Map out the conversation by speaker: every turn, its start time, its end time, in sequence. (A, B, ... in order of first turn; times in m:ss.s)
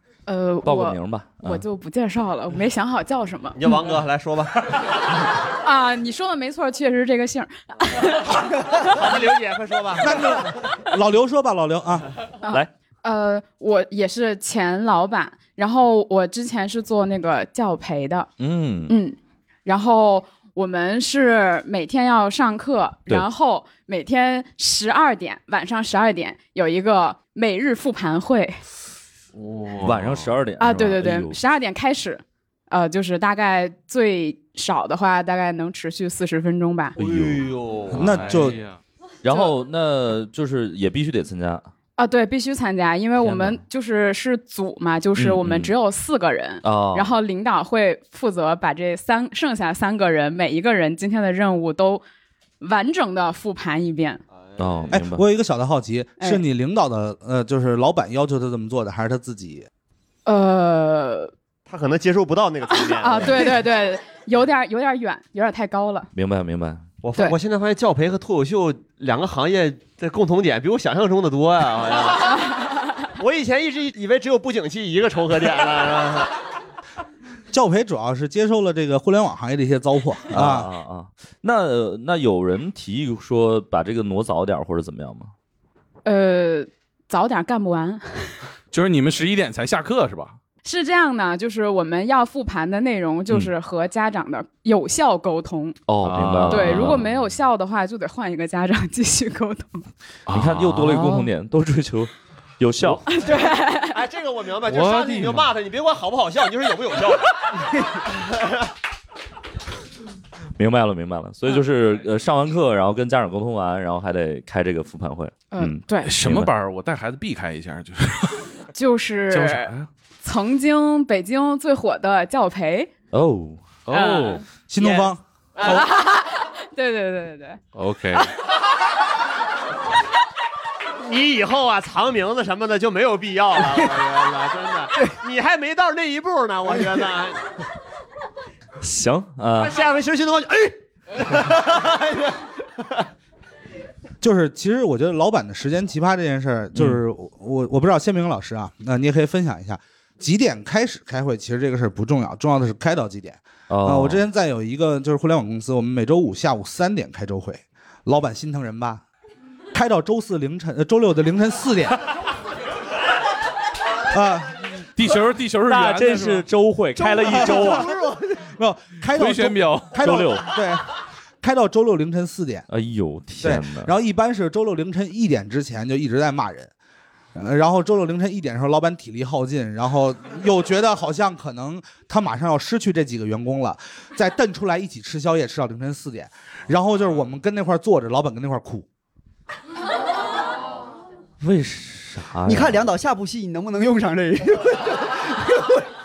0:00.3-0:03.6 A
0:00.6-0:01.6 B
0:03.5-0:04.6 C
0:05.6-0:08.8 A
0:08.8-0:10.5 C
0:10.0-0:12.1 D
0:12.4-0:18.3 A
0:18.4-0:18.9 B
0:18.9-0:28.6 A
0:29.3-0:30.3 E
0:29.8-0:31.4 B
0:30.6-0:37.0 A
0:37.0-0:38.3 B
0:37.3-0:38.8 E
0:37.9-0:38.6 D
0:39.2-0:41.7 B
0:42.0-0:52.0 A
0:43.2-0:43.6 B
0:45.2-0:45.7 B
0:46.6-0:47.1 B
0:52.6-0:54.2 A
0:54.6-0:55.2 B
0:54.9-0:59.7 D
1:00.2-1:01.3 A
1:01.7-1:03.6 C
1:02.8-1:06.1 A
1:06.1-1:06.8 B
1:07.0-1:12.5 C
1:13.2-1:16.3 C
1:17.5-1:20.7 D
1:20.3-1:25.3 B
1:26.0-1:28.3 A
1:28.7-1:30.4 E
1:30.6-1:35.8 A
1:35.9-1:37.1 B
1:36.0-1:37.0 E
1:36.5-1:39.8 A
1:40.3-1:41.3 E
1:40.3-1:43.0 B
1:43.1-1:43.9 A
1:43.8-1:47.4 C
1:44.6-1:45.5 E
1:48.1-1:48.6 C
1:50.6-1:56.5 B
1:55.5-1:56.1 A
1:56.0-1:58.4 E
1:58.7-2:02.9 A
1:59.3-1:59.9 E
2:03.1-2:03.6 B
2:03.8-2:04.4 E
2:03.9-2:05.1 A
2:04.7-2:05.2 D
2:05.6-2:07.6 A
2:07.7-2:08.3 E
2:11.0-2:17.4 C
2:18.8-2:19.8 B
2:19.6-2:23.0 C
2:24.2-2:39.0 D
2:26.7-2:27.0 B
2:33.7-2:34.2 B
2:39.7-2:42.0 D
2:44.1-2:44.8 D
2:45.0-2:46.4 E
2:45.6-2:47.9 B
2:47.0-2:48.4 F
2:47.2-2:50.9 D
2:49.1-2:50.0 E
2:50.0-2:50.5 B
2:51.4-2:52.6 D
2:52.7-2:53.9 B
2:53.4-2:56.7 D
2:57.3-3:08.8 D
3:11.4-3:12.9 B
3:12.4-3:15.8 F